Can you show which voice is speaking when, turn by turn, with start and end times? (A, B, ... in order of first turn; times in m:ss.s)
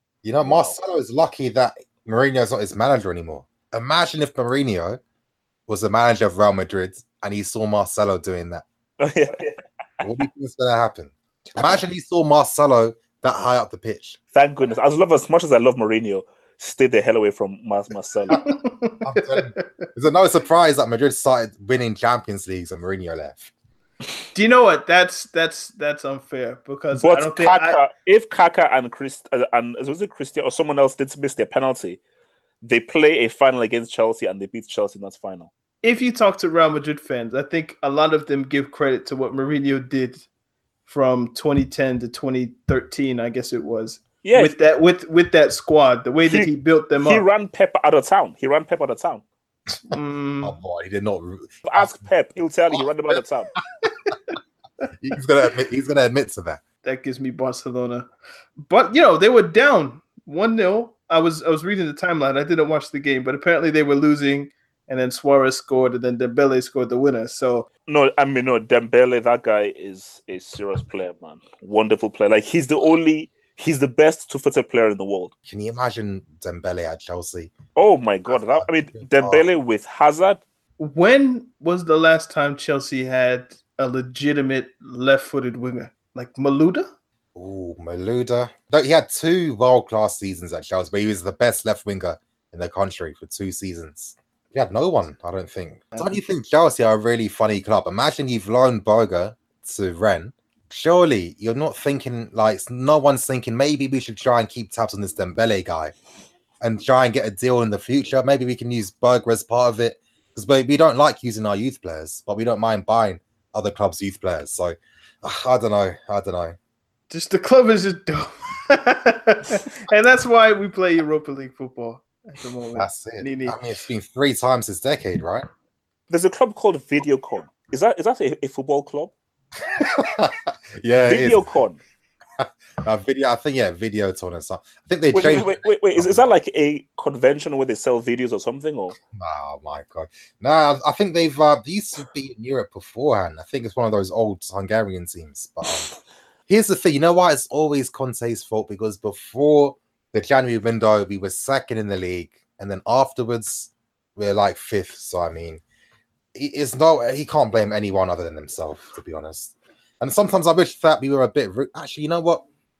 0:00.2-0:05.0 A
0:00.4-0:00.8 B
0:05.7-0:08.6 A
0:09.0-0:09.6 B
0:10.0-0:14.2 A
0:14.3-0:18.4 B
0:18.3-0:19.6 C
0:19.0-0:23.5 A
0:24.3-0:27.8 C
0:26.9-0:32.0 B
0:32.6-0:35.5 B
0:35.8-0:40.2 C
0:40.8-0:47.2 C
0:44.2-0:44.5 B
0:47.0-0:49.2 B
0:49.9-0:50.6 C
0:50.4-0:52.0 A
0:51.6-0:53.5 B
0:52.7-0:53.2 A
0:55.0-0:56.6 A
0:56.8-0:58.1 C
0:58.6-1:07.7 C
1:07.9-1:15.3 B
1:15.5-1:17.5 A
1:17.8-1:20.4 B
1:18.3-1:19.4 A
1:20.8-1:26.9 C
1:27.3-1:45.9 A
1:46.6-1:56.6 A
1:57.1-2:03.6 C
2:02.8-2:05.4 A
2:06.1-2:09.1 B
2:09.8-2:11.5 A
2:11.0-2:11.8 B
2:12.4-2:16.2 A
2:15.1-2:19.0 B
2:19.1-2:25.9 A
2:26.5-2:35.6 A
2:36.3-2:42.4 A